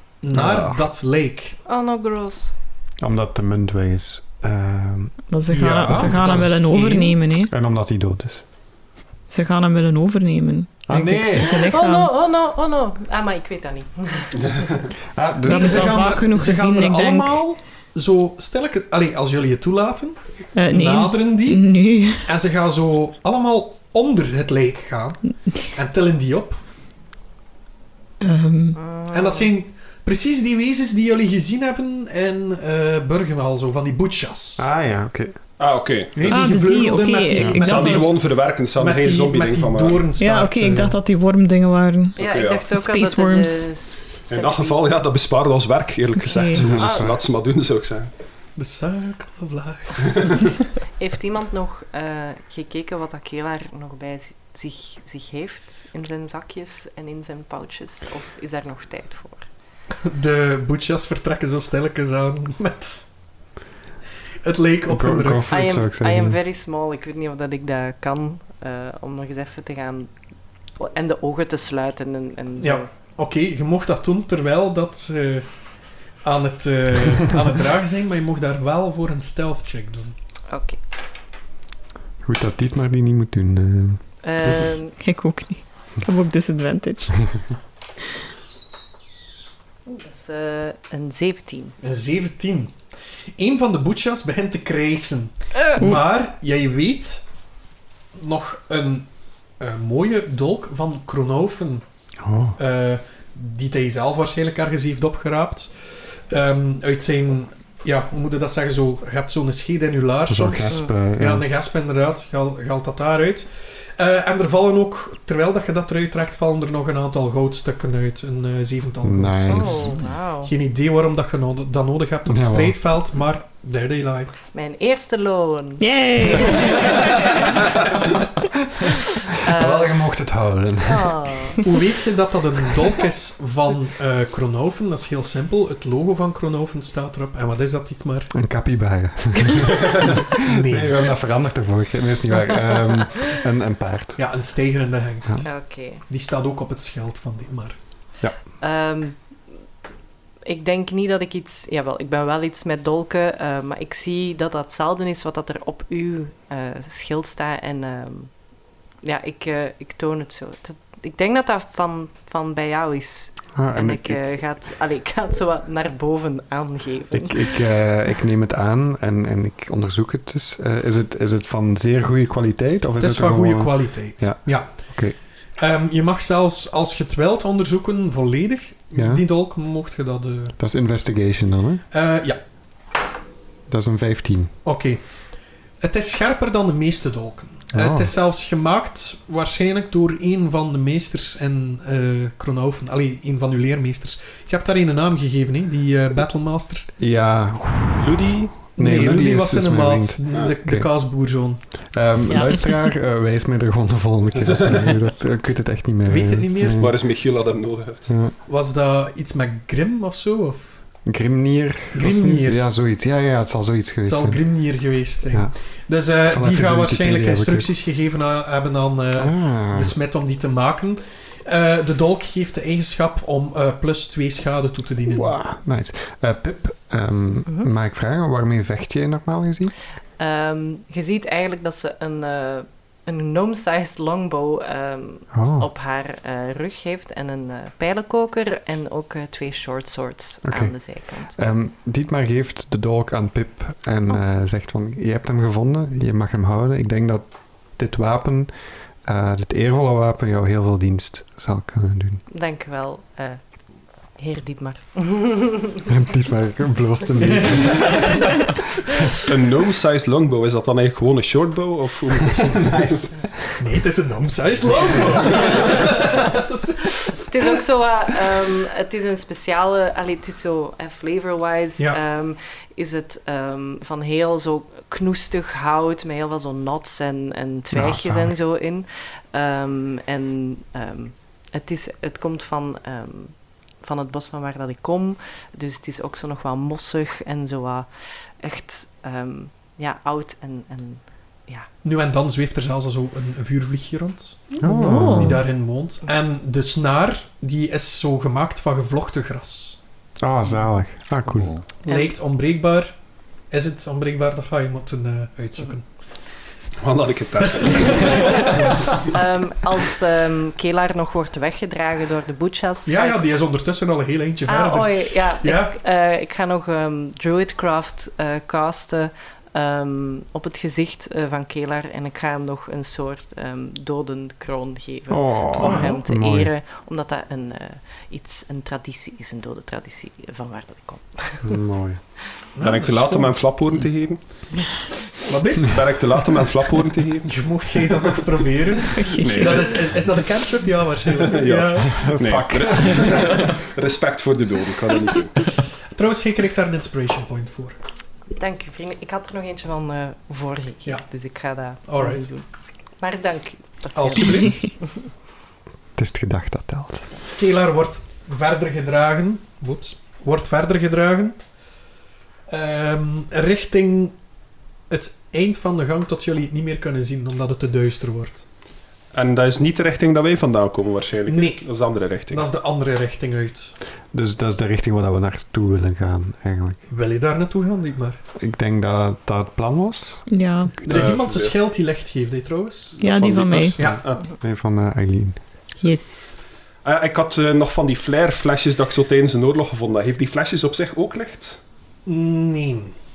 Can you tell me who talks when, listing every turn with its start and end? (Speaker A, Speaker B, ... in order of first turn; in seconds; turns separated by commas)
Speaker A: 0.2-1.6, Speaker B: 0.3-0.8, Speaker C: 1.6-2.5, Speaker B: 3.0-5.2, Speaker D: 5.3-7.5, Speaker A: 5.5-7.2, Speaker B: 5.9-6.5, Speaker B: 7.5-8.4, Speaker D: 9.3-12.1, Speaker B: 10.9-11.6, Speaker C: 11.4-14.3, Speaker B: 15.1-16.0, Speaker D: 15.4-17.4, Speaker A: 15.5-26.6, Speaker D: 20.5-22.3, Speaker D: 28.2-28.8, Speaker C: 28.8-29.5, Speaker A: 29.1-34.7, Speaker B: 34.6-35.4, Speaker E: 35.6-36.5, Speaker A: 36.1-41.0, Speaker D: 36.2-38.1, Speaker E: 37.6-40.1, Speaker D: 40.2-42.2, Speaker C: 42.2-44.9, Speaker E: 42.2-42.6, Speaker D: 42.7-43.7, Speaker E: 44.3-48.1, Speaker D: 46.2-46.7, Speaker B: 46.5-47.2, Speaker C: 46.8-47.1, Speaker A: 48.5-50.3, Speaker C: 51.0-59.4, Speaker A: 60.0-63.1, Speaker A: 64.4-65.4, Speaker B: 64.9-66.4, Speaker C: 65.5-70.1, Speaker C: 70.8-72.9, Speaker A: 72.6-75.5, Speaker A: 76.2-80.1, Speaker C: 80.5-80.8, Speaker B: 82.2-84.7, Speaker C: 84.2-85.0, Speaker D: 85.0-87.2, Speaker C: 89.8-91.7, Speaker A: 91.8-92.7, Speaker A: 93.4-97.2, Speaker A: 98.2-101.8, Speaker B: 102.2-102.6, Speaker A: 102.6-124.3, Speaker B: 110.3-111.4, Speaker B: 119.0-120.0, Speaker C: 119.5-120.5, Speaker B: 122.3-122.8, Speaker C: 124.5-127.8, Speaker D: 125.8-127.4, Speaker C: 129.3-130.0, Speaker B: 129.5-131.3, Speaker C: 130.8-131.6, Speaker A: 131.6-138.3, Speaker B: 138.3-144.2, Speaker A: 140.2-141.0, Speaker A: 144.2-147.8, Speaker C: 145.4-146.0, Speaker C: 148.6-149.2, Speaker C: 150.4-158.3, Speaker C: 159.0-167.5, Speaker B: 163.6-164.2, Speaker B: 167.1-175.1, Speaker A: 173.0-174.7, Speaker A: 175.6-180.5, Speaker B: 178.9-179.2, Speaker B: 180.6-181.8, Speaker A: 181.9-182.4, Speaker B: 183.7-184.5, Speaker A: 184.6-185.0, Speaker A: 185.8-196.9, Speaker B: 187.7-188.1, Speaker B: 197.0-200.9, Speaker E: 198.0-199.2, Speaker A: 198.8-201.6, Speaker B: 201.9-207.0, Speaker D: 202.5-202.8, Speaker A: 206.1-206.8, Speaker E: 206.8-208.1, Speaker B: 208.1-208.3, Speaker A: 208.4-210.8, Speaker B: 211.0-214.4, Speaker A: 211.9-212.6, Speaker A: 214.0-225.3, Speaker B: 216.3-217.7, Speaker B: 219.2-219.9, Speaker B: 225.1-229.7, Speaker C: 230.2-241.3, Speaker B: 235.3-235.7, Speaker B: 240.4-240.7, Speaker B: 241.3-248.5, Speaker B: 249.0-252.2, Speaker C: 252.3-253.4, Speaker C: 254.1-255.8, Speaker B: 255.8-258.2, Speaker A: 257.2-258.1, Speaker E: 259.2-263.1, Speaker B: 262.4-263.1, Speaker A: 263.6-266.8, Speaker C: 267.3-287.9, Speaker B: 277.7-278.3, Speaker C: 288.4-291.7, Speaker A: 291.8-299.8, Speaker B: 294.6-295.4, Speaker D: 294.6-295.4, Speaker B: 300.2-301.5, Speaker A: 301.8-302.9, Speaker C: 301.9-302.1, Speaker A: 303.5-305.9, Speaker E: 306.8-309.0, Speaker A: 307.8-308.7, Speaker C: 308.1-313.3, Speaker A: 312.9-315.7, Speaker C: 314.4-331.6, Speaker B: 325.1-326.5, Speaker A: 325.6-325.9, Speaker B: 331.4-332.0, Speaker A: 332.5-333.3, Speaker E: 332.6-334.2, Speaker A: 335.3-335.9, Speaker E: 335.6-337.4, Speaker A: 337.2-342.1, Speaker D: 338.9-339.7, Speaker E: 339.1-339.7, Speaker E: 341.2-345.4, Speaker B: 341.9-343.5, Speaker A: 345.9-347.8, Speaker C: 348.4-352.4, Speaker A: 351.8-352.2, Speaker C: 353.0-355.0, Speaker A: 353.9-354.6, Speaker B: 355.9-357.1, Speaker A: 357.4-361.4, Speaker A: 362.5-364.1, Speaker A: 364.9-368.4, Speaker E: 369.1-372.4, Speaker A: 371.3-371.6, Speaker A: 372.3-373.7, Speaker B: 374.1-376.8, Speaker A: 376.9-378.2, Speaker B: 378.4-380.2, Speaker D: 380.3-380.8, Speaker E: 380.8-381.5, Speaker A: 380.8-383.0, Speaker E: 383.0-384.3, Speaker D: 383.0-383.9, Speaker A: 383.8-384.0, Speaker B: 384.3-385.4, Speaker D: 385.8-386.4, Speaker E: 386.8-391.6, Speaker A: 392.1-392.9